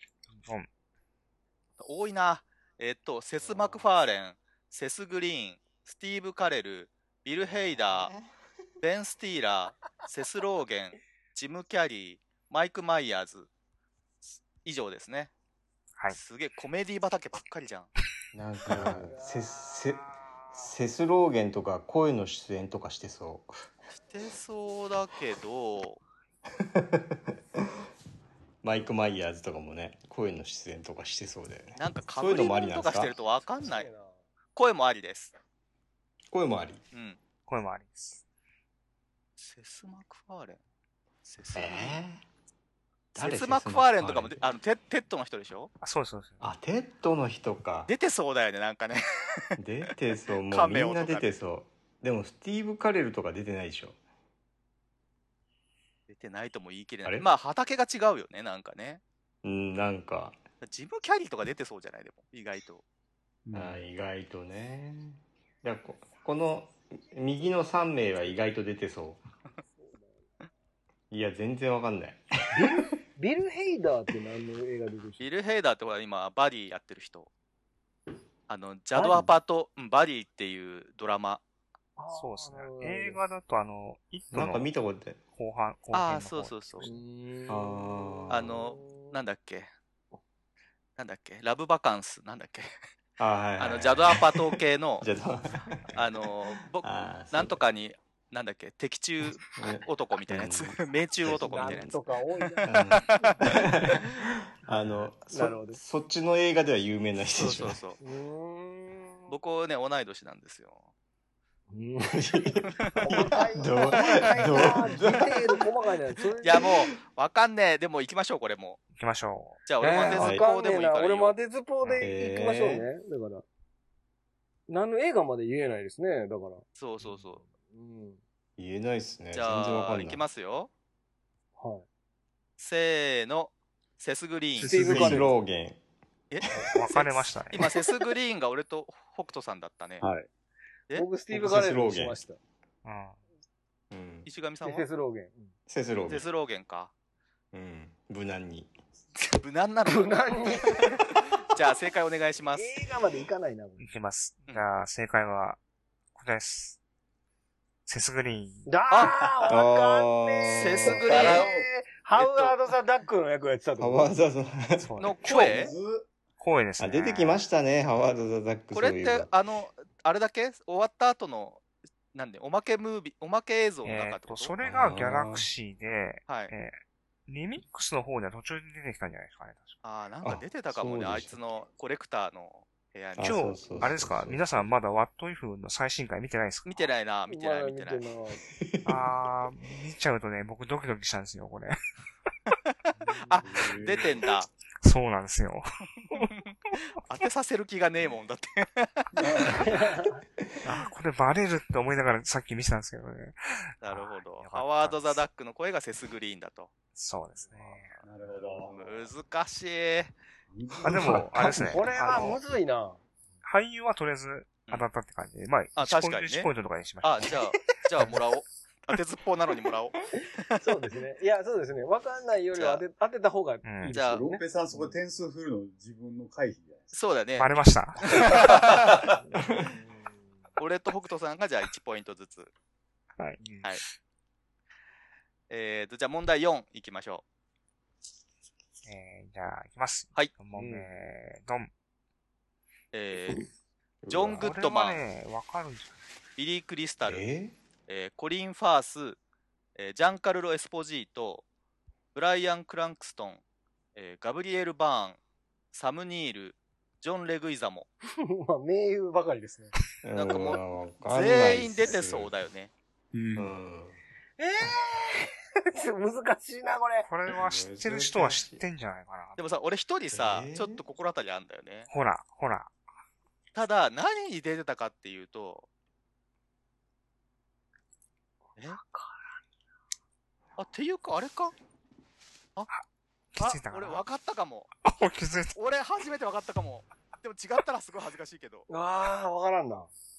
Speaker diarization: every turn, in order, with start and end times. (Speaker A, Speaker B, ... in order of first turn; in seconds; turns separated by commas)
Speaker A: 0.4-0.7, Speaker B: 1.8-8.1, Speaker C: 3.4-3.8, Speaker C: 7.4-8.3, Speaker B: 8.8-13.5, Speaker B: 14.2-15.3, Speaker B: 16.1-17.9, Speaker C: 18.3-23.5, Speaker D: 19.0-19.8, Speaker B: 24.1-26.0, Speaker C: 26.6-27.2, Speaker C: 28.6-33.1, Speaker B: 31.8-33.9, Speaker D: 33.6-34.2, Speaker B: 34.5-35.3, Speaker C: 36.3-36.8, Speaker B: 36.9-37.2, Speaker A: 37.5-38.2, Speaker B: 39.4-40.6, Speaker B: 41.2-42.0, Speaker C: 41.5-42.2, Speaker B: 43.1-45.7, Speaker C: 43.1-44.4, Speaker A: 45.8-46.4, Speaker C: 46.4-47.9, Speaker B: 47.9-49.6, Speaker C: 49.6-54.0, Speaker B: 50.5-51.3, Speaker B: 56.1-59.0, Speaker C: 59.4-60.4, Speaker B: 60.6-62.8, Speaker E: 63.5-63.8, Speaker C: 63.5-69.2, Speaker C: 71.1-72.8, Speaker D: 72.5-75.3, Speaker B: 75.2-77.3, Speaker B: 78.5-81.4, Speaker D: 78.9-79.3, Speaker D: 82.0-83.2, Speaker A: 82.1-84.7, Speaker C: 84.3-85.2, Speaker A: 85.3-86.5, Speaker B: 85.9-86.9, Speaker D: 86.8-89.1, Speaker C: 87.5-88.7, Speaker B: 88.3-89.7, Speaker B: 91.0-92.7, Speaker C: 93.2-96.0, Speaker B: 93.6-95.1, Speaker B: 95.9-103.6, Speaker C: 96.8-97.6, Speaker C: 99.5-101.9, Speaker D: 101.4-103.4, Speaker C: 102.6-107.8, Speaker D: 105.3-105.8, Speaker B: 107.3-108.0, Speaker D: 108.0-109.3, Speaker B: 109.3-110.9, Speaker D: 111.7-116.7, Speaker C: 112.1-115.6, Speaker B: 113.1-113.3, Speaker B: 116.4-118.8, Speaker A: 118.9-119.6, Speaker B: 119.7-121.4, Speaker D: 119.8-123.4, Speaker C: 120.1-120.4, Speaker C: 122.0-122.9, Speaker D: 124.7-126.6, Speaker B: 126.8-127.4, Speaker D: 127.5-128.2, Speaker C: 128.6-130.2, Speaker B: 129.3-130.7, Speaker D: 131.6-131.9, Speaker B: 132.6-135.2, Speaker C: 134.6-135.8, Speaker D: 134.6-135.3, Speaker B: 136.3-140.1, Speaker A: 136.7-137.8, Speaker E: 140.0-140.3, Speaker D: 140.9-142.4, Speaker C: 141.3-142.2, Speaker A: 142.8-143.2, Speaker C: 143.9-144.3, Speaker B: 144.3-144.9, Speaker D: 144.6-145.5, Speaker C: 145.7-146.3, Speaker B: 146.1-146.9, Speaker C: 147.5-148.7, Speaker B: 149.2-152.7, Speaker D: 149.9-150.9, Speaker D: 152.5-153.9, Speaker A: 153.8-155.6, Speaker A: 156.1-156.8, Speaker A: 157.9-158.7, Speaker D: 158.7-164.1, Speaker C: 159.5-161.2, Speaker B: 160.6-161.5, Speaker E: 160.9-161.7, Speaker B: 162.1-162.6, Speaker C: 163.8-164.9, Speaker A: 164.8-165.5, Speaker B: 165.0-165.7, Speaker E: 165.2-166.1, Speaker A: 166.4-167.4, Speaker C: 166.8-169.3, Speaker B: 168.7-174.5, Speaker A: 173.8-179.8, Speaker C: 174.6-175.5, Speaker B: 176.3-176.5, Speaker B: 179.8-183.7, Speaker C: 180.2-181.4, Speaker C: 183.2-184.6, Speaker A: 183.2-186.9, Speaker B: 186.7-188.1, Speaker D: 187.3-188.4, Speaker C: 188.5-189.2, Speaker A: 188.8-191.8, Speaker D: 193.1-193.4, Speaker B: 193.3-194.5, Speaker E: 193.4-194.1, Speaker A: 194.8-196.4, Speaker B: 197.0-199.6, Speaker E: 199.1-199.8, Speaker D: 199.5-200.2, Speaker A: 200.6-205.2, Speaker B: 203.8-206.7, Speaker A: 206.9-208.0, Speaker E: 208.0-209.1, Speaker B: 208.6-210.1, Speaker E: 210.5-211.5, Speaker A: 210.8-212.4, Speaker C: 210.9-211.7, Speaker D: 211.4-213.0, Speaker A: 213.4-217.8, Speaker B: 215.8-216.5, Speaker B: 217.0-220.6, Speaker D: 220.6-224.9, Speaker B: 222.5-222.8, Speaker A: 223.6-223.9, Speaker B: 223.9-224.2, Speaker E: 223.9-226.9, Speaker B: 226.9-227.5, Speaker A: 227.4-228.4, Speaker B: 228.0-229.0, Speaker E: 228.1-229.2, Speaker C: 229.3-229.8, Speaker B: 230.6-232.5, Speaker A: 233.2-233.8, Speaker B: 235.5-237.2, Speaker A: 238.8-241.7, Speaker D: 240.6-240.9, Speaker B: 242.9-243.5, Speaker C: 244.1-244.5, Speaker B: 244.1-245.0, Speaker A: 244.4-245.9, Speaker B: 246.4-247.2, Speaker C: 247.1-247.6, Speaker B: 247.9-249.2, Speaker B: 249.8-251.4, Speaker B: 252.1-253.4, Speaker B: 253.9-255.2, Speaker B: 255.7-257.9, Speaker D: 258.2-259.7, Speaker C: 260.0-262.3, Speaker B: 260.1-262.7, Speaker E: 263.1-263.5, Speaker C: 263.4-264.0, Speaker D: 264.4-267.1, Speaker A: 267.1-269.4, Speaker C: 267.3-268.6, Speaker B: 269.4-271.9, Speaker C: 270.1-270.8, Speaker A: 271.9-272.7, Speaker B: 273.5-275.7, Speaker D: 278.6-279.4, Speaker B: 280.6-281.5, Speaker A: 283.4-284.0, Speaker B: 283.4-284.7, Speaker A: 284.8-285.6, Speaker B: 285.6-288.7, Speaker D: 288.7-289.9